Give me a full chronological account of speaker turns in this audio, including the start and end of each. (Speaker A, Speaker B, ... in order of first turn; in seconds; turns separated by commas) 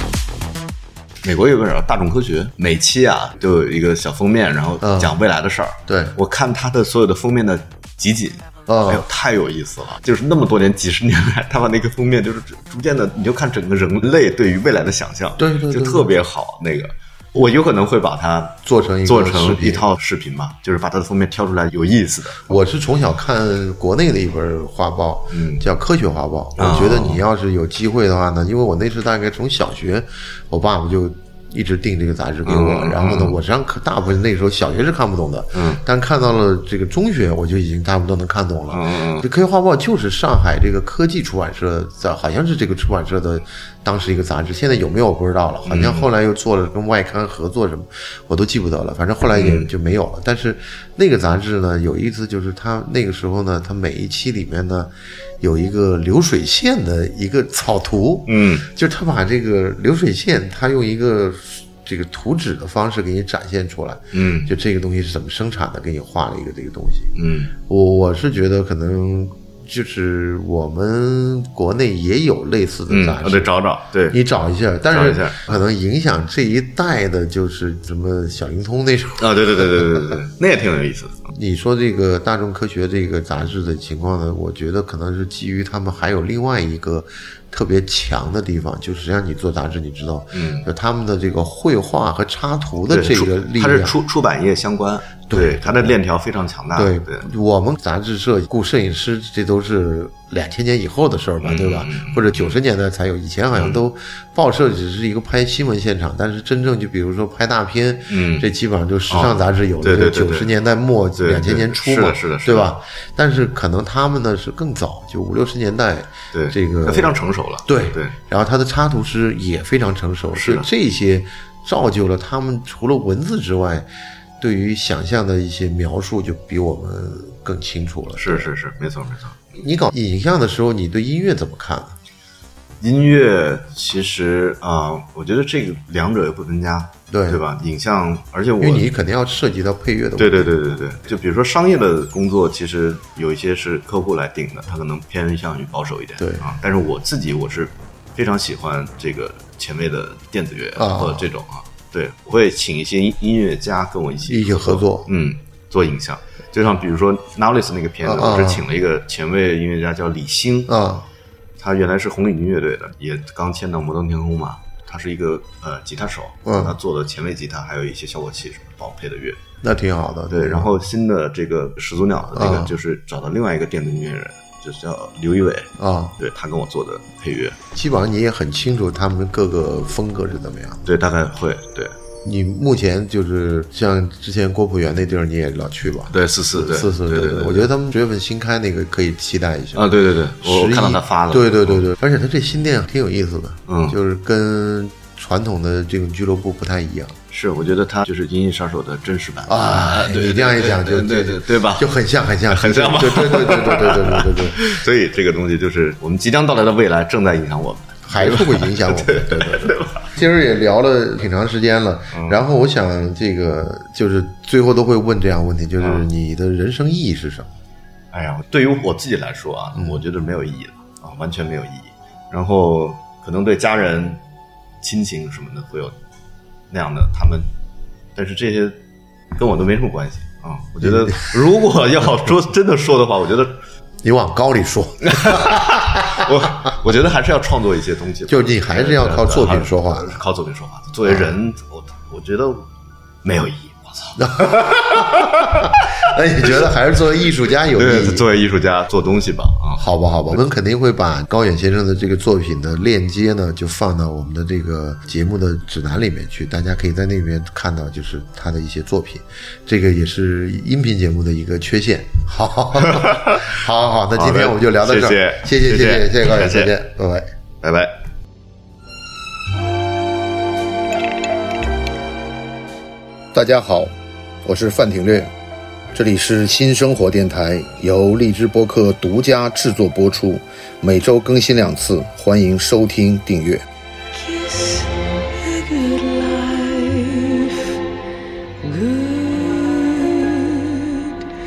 Speaker A: 1.2-22.6, Speaker B: 4.8-5.2, Speaker B: 5.9-6.2, Speaker B: 8.7-9.1, Speaker B: 15.4-16.1, Speaker B: 18.6-19.9, Speaker B: 22.5-67.1, Speaker A: 25.3-25.6, Speaker A: 26.6-27.2, Speaker A: 32.5-33.4, Speaker A: 35.5-35.8, Speaker A: 38.7-39.3, Speaker A: 45.7-46.1, Speaker A: 49.3-49.7, Speaker A: 58.3-58.7, Speaker A: 64.1-64.5, Speaker A: 67.2-67.5, Speaker B: 67.7-73.5, Speaker A: 72.9-74.2, Speaker B: 74.1-80.2, Speaker A: 74.9-75.6, Speaker A: 79.2-81.3, Speaker B: 81.3-94.0, Speaker A: 90.3-90.7, Speaker A: 92.9-97.3, Speaker B: 95.3-96.0, Speaker B: 96.8-123.9, Speaker A: 101.4-102.6, Speaker A: 103.5-103.8, Speaker A: 108.1-108.5, Speaker A: 109.1-110.5, Speaker A: 111.2-112.7, Speaker A: 116.3-118.1, Speaker A: 120.3-120.7, Speaker B: 124.4-128.5, Speaker A: 128.2-129.4, Speaker B: 129.6-131.9, Speaker A: 132.8-138.9, Speaker B: 137.1-137.4, Speaker B: 138.6-140.6, Speaker A: 140.2-160.8, Speaker B: 146.2-146.5, Speaker B: 150.8-151.3, Speaker B: 154.3-155.1, Speaker B: 158.0-158.6, Speaker B: 160.7-161.1, Speaker A: 161.6-169.4, Speaker B: 166.5-166.8, Speaker B: 169.6-170.7, Speaker A: 170.3-177.6, Speaker B: 172.3-172.7, Speaker B: 175.8-176.2, Speaker B: 177.7-180.8, Speaker A: 180.8-182.0, Speaker B: 182.2-197.2, Speaker A: 186.1-187.7, Speaker A: 189.7-191.9, Speaker A: 193.7-194.0, Speaker A: 197.3-201.9, Speaker B: 199.5-204.8, Speaker A: 202.5-210.1, Speaker B: 208.1-217.5, Speaker A: 212.1-212.4, Speaker A: 215.8-216.1, Speaker A: 218.1-224.2, Speaker B: 219.8-220.0, Speaker A: 224.8-226.0, Speaker A: 226.7-227.5, Speaker A: 228.2-228.8, Speaker A: 229.4-233.6, Speaker B: 230.8-231.2, Speaker B: 234.0-236.7, Speaker A: 235.0-242.7, Speaker B: 238.3-240.2, Speaker B: 241.1-241.4, Speaker A: 243.2-245.9, Speaker B: 244.2-248.2, Speaker A: 247.7-250.4, Speaker B: 249.8-267.3, Speaker A: 262.8-263.6, Speaker A: 264.2-266.8, Speaker A: 267.6-267.9, Speaker C: 273.3-273.9, Speaker C: 274.4-275.3, Speaker C: 275.9-283.6, Speaker D: 284.1-287.8, Speaker D: 288.6-291.1